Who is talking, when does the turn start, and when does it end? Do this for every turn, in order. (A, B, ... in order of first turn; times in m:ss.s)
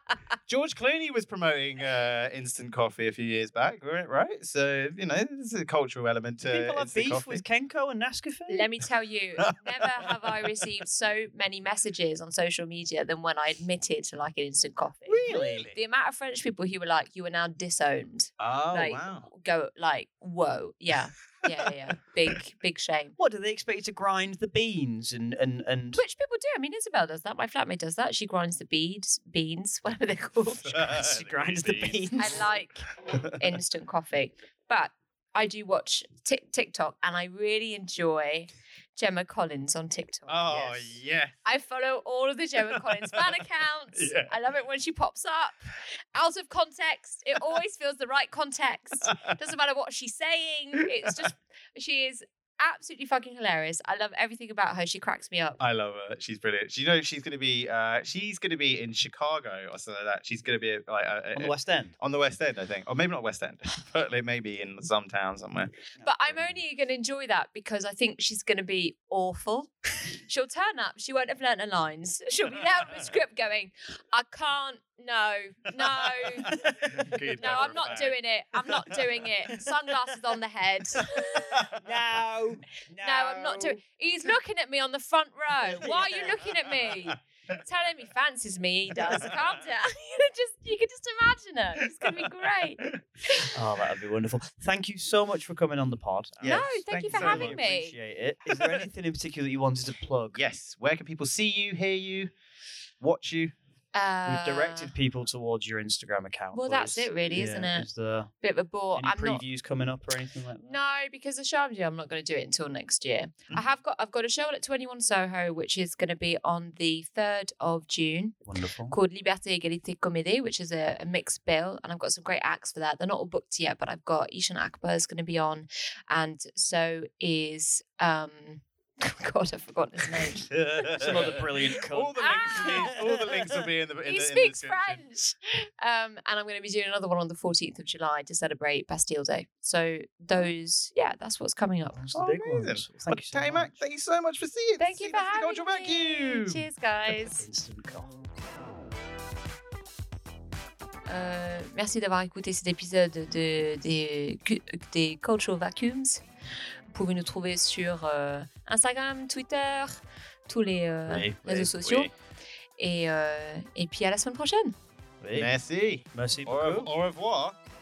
0:00.5-0:07.4 A
0:06.5-0:08.7 B
0:08.5-0:23.2 C
0:09.4-0:10.5 A
0:15.1-0:15.7 B
0:15.3-0:15.8 A
0:18.4-0:19.3 A
0:23.2-0:26.0 B
0:26.0-0:30.9 C
0:30.6-0:32.2 A
0:30.9-0:32.5 B
0:32.2-0:55.6 C
0:40.3-0:41.4 A
0:42.8-0:43.3 A
0:43.9-0:44.4 A
0:49.0-0:49.3 A
0:55.6-1:05.7 A
1:01.4-1:02.0 B
1:06.0-1:16.5 C
1:15.8-1:18.2 A
1:16.5-1:17.2 B
1:17.3-1:21.7 C
1:21.4-1:21.9 A
1:21.8-1:23.8 B
1:23.0-1:33.5 C
1:25.7-1:26.4 B
1:26.4-1:27.1 A
1:29.0-1:29.4 A
1:32.0-1:32.3 A
1:33.5-1:40.4 B
1:36.4-1:37.6 A
1:36.4-1:38.0 C
1:38.5-1:38.9 A
1:40.3-1:42.3 A
1:43.0-1:43.5 A
1:43.9-1:44.9 C
1:44.3-1:48.3 B
1:46.5-1:47.9 C
1:48.4-1:49.4 C
1:49.0-1:50.7 B
1:50.6-2:13.0 C
1:58.5-1:59.0 B
2:10.2-2:15.0 A
2:11.0-2:13.4 B
2:14.1-2:22.0 C
2:22.0-2:23.7 B
2:22.1-2:26.7 A
2:24.8-2:27.4 C
2:27.4-2:28.3 B
2:31.1-2:36.2 C
2:36.9-2:40.0 C
2:40.5-2:42.1 C
2:41.1-2:41.4 B
2:41.4-2:42.1 A
2:42.8-2:44.8 C
2:45.2-2:45.5 B
2:45.3-2:47.6 A
2:46.1-2:46.9 B